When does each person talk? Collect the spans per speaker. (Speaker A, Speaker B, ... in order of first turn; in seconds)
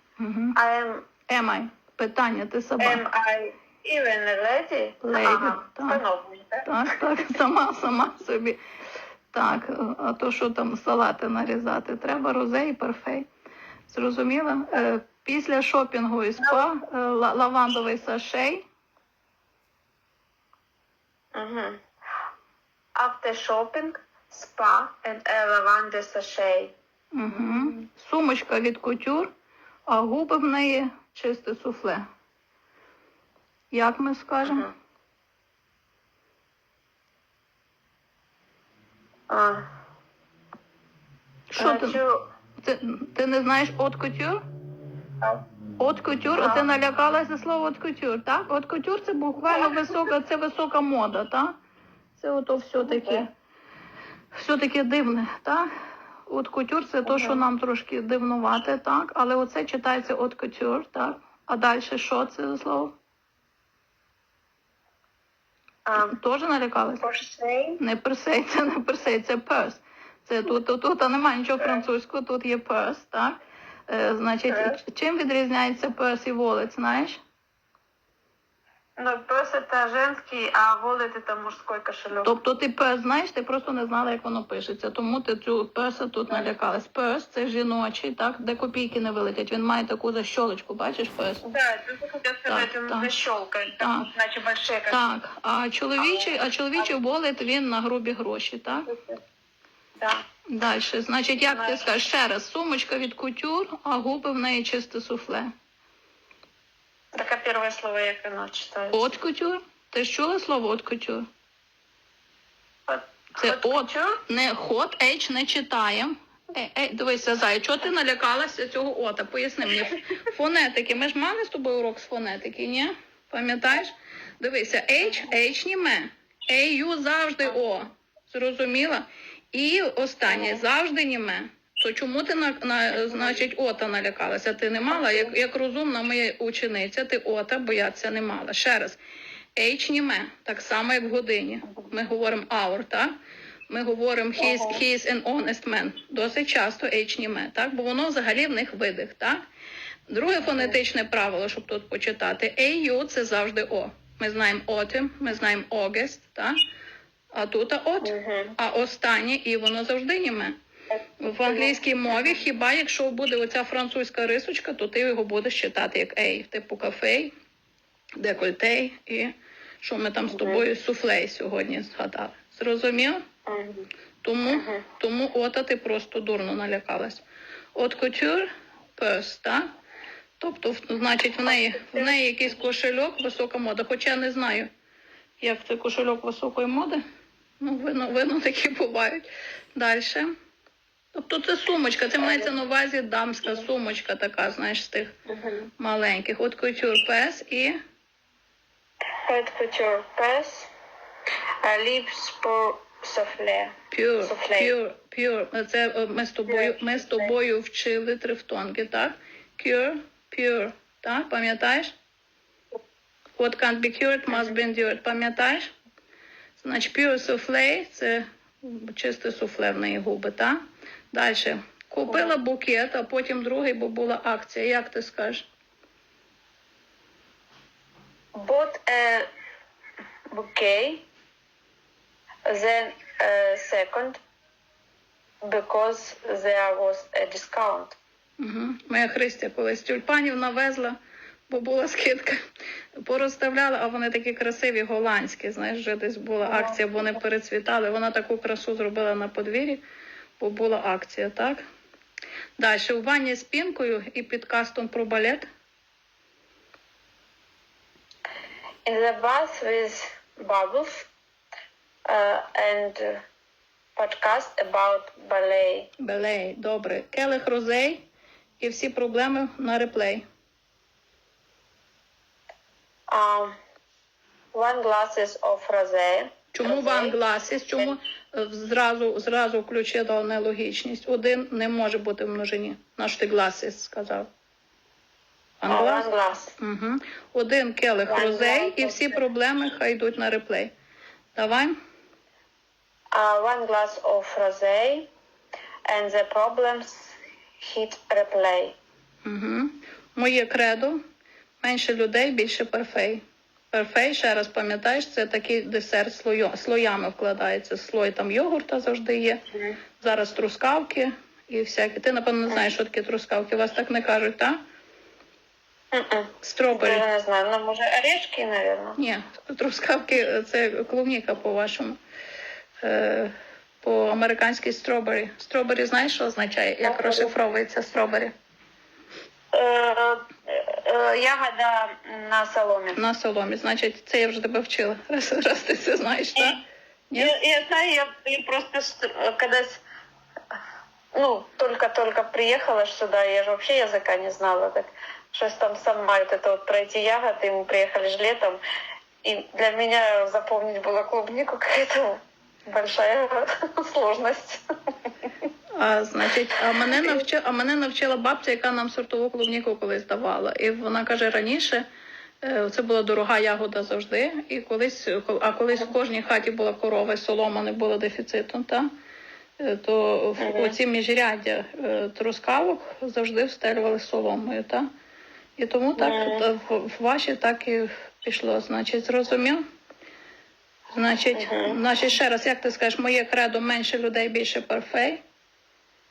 Speaker A: 0.2-0.6, 1.3-3.0, 5.0-6.0, 6.7-8.6, 9.3-13.3, 13.9-18.6, 27.1-29.3, 29.9-32.0, 33.7-34.7, 41.5-42.0, 42.6-44.4, 45.8-51.6, 52.2-53.3, 54.3-55.7, 56.3-63.0, 66.0-67.0, 67.8-73.4, 73.9-77.2, 82.2-91.4, 92.5-93.2, 93.8-94.1, 94.9-98.9, 100.5-105.5, 108.9-111.3, 113.4-139.0, 139.6-143.1, 143.7-149.4, 150.1-156.6, 157.3-160.5, 161.2-167.3, 168.2-173.2, 174.2-177.2, 177.8-179.7, 180.4-184.7, 185.4-187.0, 187.6-190.3, 191.1-195.1, 195.8-197.8, 203.9-211.9, 213.4-215.7, 216.6-220.6, 221.1-225.5, 238.4-241.0, 241.5-242.4, 243.0-249.8, 250.4-251.6, 252.6-255.4, 266.0-268.0, 268.6-270.2, 276.5-284.3, 285.6-290.7, 291.4-291.8, 299.2-301.0, 301.6-309.4, 310.0-314.6, 316.4-317.1, 319.0-322.0, 322.8-328.3, 332.9-336.6, 337.1-337.4, 355.8-361.8, 362.4-368.9, 369.6-374.9, 375.6-379.6, 380.9-385.2
Speaker B: 0.6-1.1, 2.8-6.7, 21.4-21.8, 23.0-26.7, 34.5-34.7, 39.3-39.7, 41.6-42.2, 46.4-46.7, 52.8-53.3, 57.1-57.4, 65.9-66.2, 67.0-67.8, 74.5-74.8, 79.0-82.3, 91.4-95.1, 96.0-96.9, 98.8-99.2, 101.5-101.8, 107.2-109.1, 112.9-114.2, 130.3-130.6, 133.1-133.4, 134.9-135.3, 144.4-144.8, 158.0-158.6, 160.9-162.4, 170.3-170.6, 173.5-173.9, 174.5-174.8, 181.4-182.4, 192.2-192.5, 195.3-195.7, 199.3-200.7, 201.6-204.7, 206.5-207.3, 214.3-214.6, 222.1-222.4, 228.4-229.3, 230.3-231.0, 232.5-234.2, 235.4-238.0, 246.4-247.1, 258.9-261.1, 262.1-263.2, 264.0-265.9, 273.1-273.5, 274.5-277.2, 277.7-278.0, 285.7-286.5, 288.1-289.1, 293.1-295.1, 295.9-298.8, 315.9-319.0, 326.8-327.4, 329.5-333.0, 337.2-339.8, 341.1-348.6, 349.2-352.1, 352.7-354.6, 370.4-370.8, 376.0-376.5, 381.4-381.8